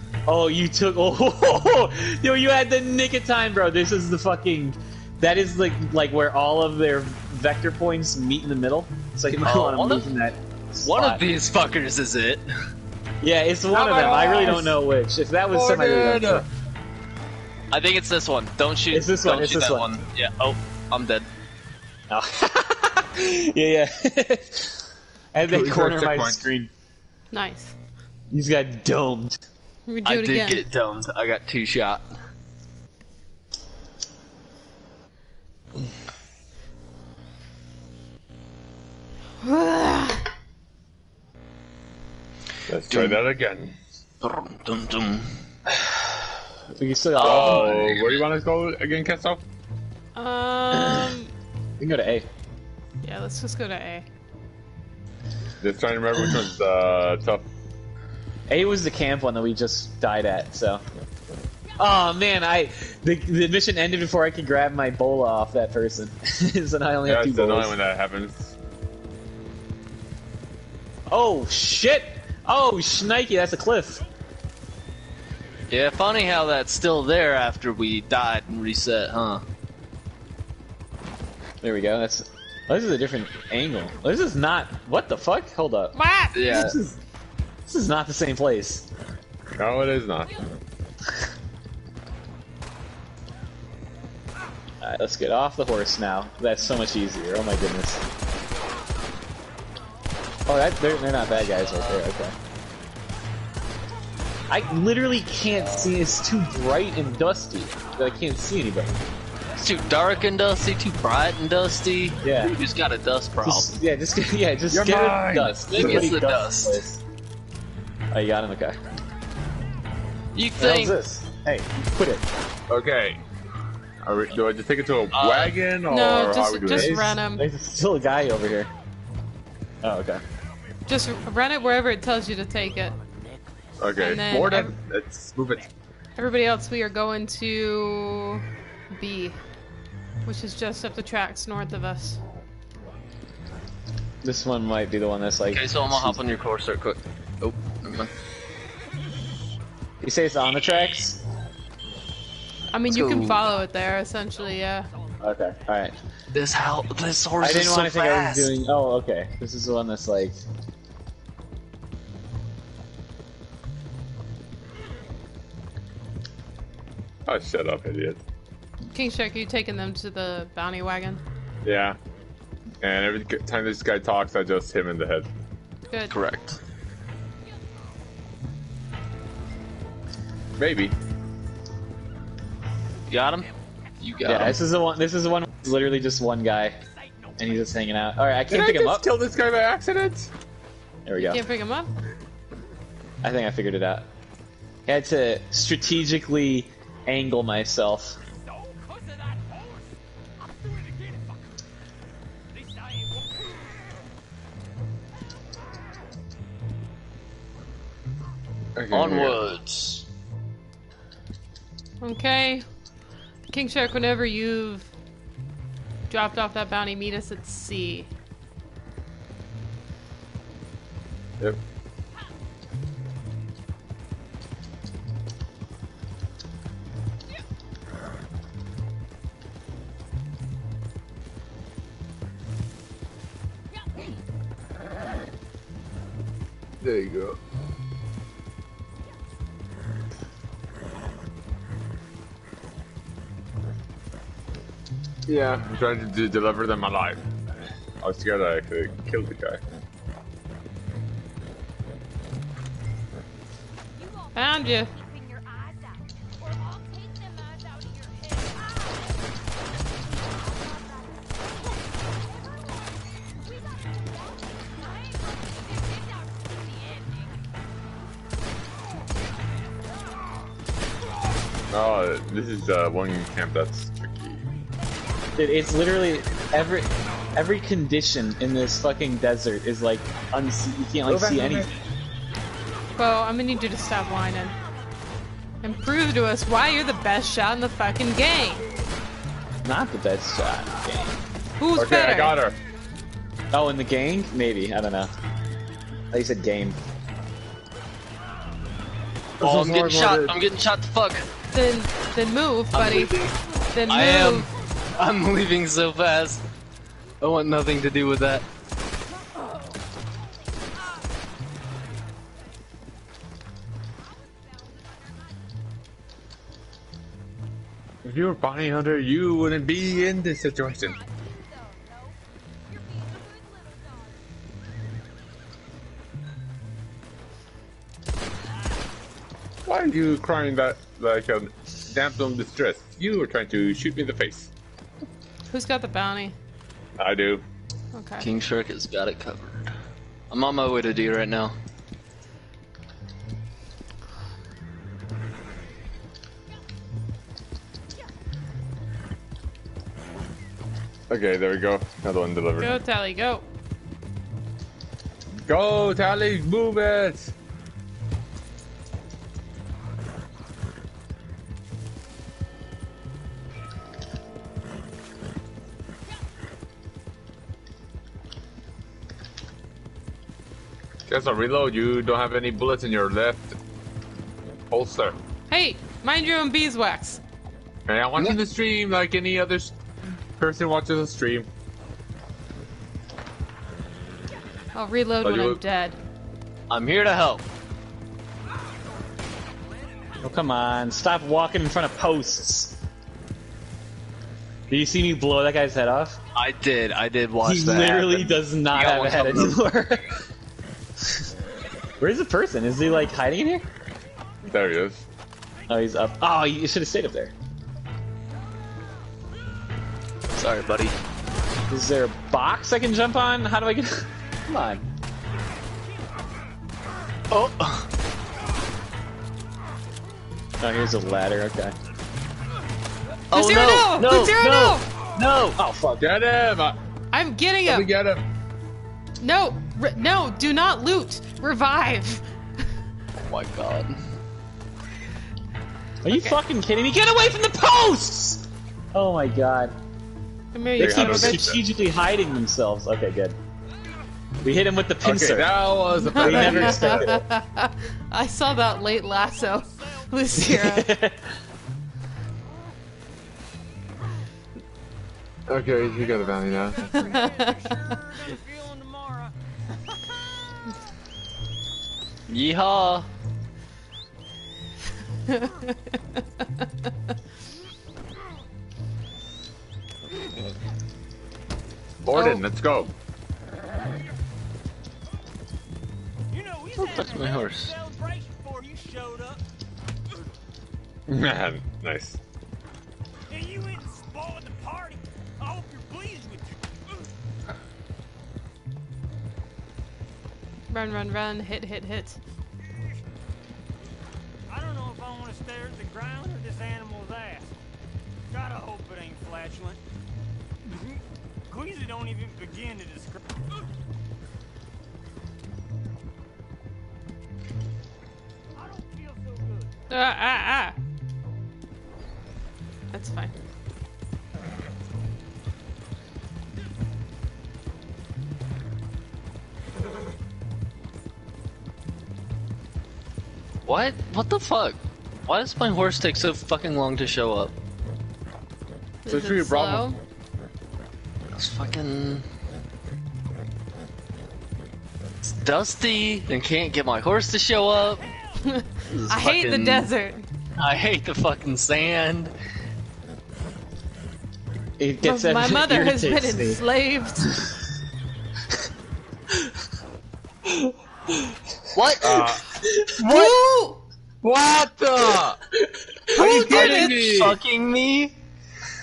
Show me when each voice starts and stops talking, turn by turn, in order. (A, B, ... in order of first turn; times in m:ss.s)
0:00.3-0:11.2 A
0:09.4-0:10.1 B
0:10.8-0:12.4 B
0:13.2-0:16.5 A
0:13.7-0:14.8 C
0:15.5-0:16.5 C
0:17.7-0:21.3 B
0:18.9-0:19.9 A
0:22.1-0:26.7 A
0:25.5-0:26.4 C
0:27.3-0:27.8 D
0:28.3-0:29.4 A
0:29.9-0:30.6 D
0:30.0-0:32.1 B
0:39.4-0:40.3 D
0:42.7-0:43.8 C
0:42.9-0:43.2 B
0:44.2-0:45.3 B
0:46.8-0:48.0 A
0:47.2-0:48.2 B
0:47.2-0:49.4 C
0:50.2-0:51.3 D
0:50.7-0:51.1 A
0:51.8-0:52.3 A
0:53.0-0:54.0 D
0:55.6-0:57.5 C
0:58.5-1:00.8 A
1:01.8-1:07.7 A
1:07.1-1:08.5 C
1:11.1-1:14.0 A
1:15.7-1:19.4 B
1:21.6-1:27.0 A
1:26.0-1:26.7 D
1:26.3-1:26.8 B
1:27.7-1:28.9 A
1:29.6-1:30.4 C
1:34.8-1:38.0 A
1:40.5-1:42.4 A
1:41.6-1:42.0 B
1:44.5-1:49.0 A
1:45.6-1:45.9 B
1:49.6-1:53.8 B
1:52.2-1:52.5 A
1:53.4-1:57.0 A
1:54.7-1:56.1 C
1:55.7-1:57.0 B
1:58.1-1:58.8 A
2:00.4-2:01.0 B
2:00.6-2:02.2 A
2:02.7-2:03.2 C
2:04.0-2:07.1 C
2:05.1-2:05.6 B
2:05.9-2:07.5 D
2:06.7-2:08.7 A
2:09.8-2:10.2 A
2:10.9-2:13.0 D
2:13.8-2:15.7 C
2:14.0-2:14.8 D
2:16.2-2:19.4 D
2:20.2-2:22.2 D
2:24.2-2:26.2 A
2:25.5-2:28.1 B
2:30.0-2:31.2 A
2:32.7-2:34.9 D
2:32.9-2:33.5 B
2:34.4-2:35.4 E
2:35.2-2:36.0 A
2:36.3-2:38.5 B
2:37.4-2:40.4 A
2:47.3-2:48.2 C
2:48.9-2:51.2 D
2:51.6-2:52.0 C
2:52.8-2:55.3 C
2:55.9-2:56.2 D
2:56.1-2:56.6 B
3:00.6-3:01.0 C
3:03.1-3:03.5 B
3:04.0-3:04.6 B
3:04.2-3:06.8 A
3:07.0-3:07.7 E
3:07.4-3:09.1 A
3:08.5-3:10.3 C
3:11.0-3:11.4 A
3:11.2-3:11.9 D
3:13.2-3:14.1 A
3:14.9-3:18.2 A
3:18.5-3:21.6 E
3:22.5-3:23.6 E
3:28.8-3:29.4 C
3:28.9-3:30.0 B
3:32.0-3:32.6 D
3:33.5-3:34.9 D
3:36.1-3:38.1 D
3:56.8-3:57.4 C
4:05.3-4:07.2 C
4:08.0-4:09.6 C
4:14.0-4:27.4 F
4:14.4-4:14.9 D
4:31.7-4:34.5 C
4:35.4-4:41.7 A
4:41.1-4:41.8 C
4:43.0-4:44.6 D
4:45.6-4:48.7 D
4:49.6-4:51.2 A
4:51.6-4:52.4 D
4:51.8-4:52.6 C
4:53.5-4:55.1 A
4:56.1-4:56.8 A
4:59.4-5:00.3 C
4:59.4-5:01.3 B
4:59.9-5:00.3 A
5:01.5-5:03.1 D
5:02.7-5:06.4 B
5:03.7-5:04.5 D
5:07.2-5:08.5 B
5:14.0-5:15.5 F
5:18.0-5:21.0 C
5:20.8-5:24.2 F
5:29.7-5:34.5 C
5:35.5-5:36.4 D
5:37.0-5:37.4 C
5:37.9-5:38.2 D
5:38.2-5:39.7 B
5:40.3-5:41.5 B
5:51.1-5:52.8 C
5:52.6-5:53.4 D
5:55.5-5:57.3 C
6:11.1-6:13.6 C
6:14.7-6:15.2 C
6:15.5-6:17.2 D
6:17.9-6:19.8 C
6:20.4-6:21.5 C
6:24.7-6:26.0 D
6:25.2-6:25.6 C
6:26.7-6:27.5 B
6:30.2-6:32.8 A
6:34.7-6:36.2 A
6:36.4-6:39.6 B
6:37.4-6:40.2 A
6:41.0-6:41.3 A
6:42.0-6:43.6 A
6:44.4-6:45.0 C
6:45.7-6:47.3 A
6:50.3-6:51.0 B
6:51.7-6:54.9 A
6:57.3-6:57.9 B
7:00.6-7:01.8 A
7:03.3-7:04.4 B
7:03.3-7:04.8 D
7:04.1-7:06.1 A
7:06.0-7:06.8 C
7:07.1-7:07.9 D
7:07.6-7:08.2 C
7:09.2-7:12.2 D
7:13.3-7:14.1 B
7:16.0-7:19.8 A
7:16.1-7:16.4 D
7:20.5-7:21.5 D
7:20.8-7:21.6 C
7:20.8-7:23.4 A
7:24.4-7:27.2 A
7:25.0-7:27.2 C
7:26.0-7:30.9 D
7:29.3-7:30.0 E
7:30.4-7:31.3 A
7:35.5-7:37.0 C
7:36.0-7:39.3 E
7:36.9-7:37.8 D
7:42.3-7:43.1 B
7:45.3-7:46.0 D
7:52.0-7:52.9 C
7:52.1-7:52.4 D
7:56.3-7:59.4 E
7:56.8-7:57.7 B
8:01.1-8:02.2 C
8:03.3-8:07.0 E
8:10.7-8:12.2 D
8:14.5-8:17.6 E
8:18.3-8:19.8 E
8:20.7-8:23.2 E
8:28.6-8:29.8 E
8:29.9-8:30.8 D
8:32.9-8:33.4 D
8:43.7-8:47.5 B
8:49.0-8:50.0 D
8:49.1-8:49.9 C
8:51.3-8:52.2 B
8:55.2-8:58.1 B
8:58.4-9:00.3 D
8:58.9-8:59.9 B
9:00.6-9:02.3 B
9:04.8-9:06.6 A
9:05.0-9:07.5 D
9:11.7-9:12.3 B
9:12.0-9:12.5 C
9:13.0-9:13.8 D
9:14.2-9:15.4 C
9:16.1-9:17.4 C
9:16.2-9:18.1 B
9:16.2-9:16.8 D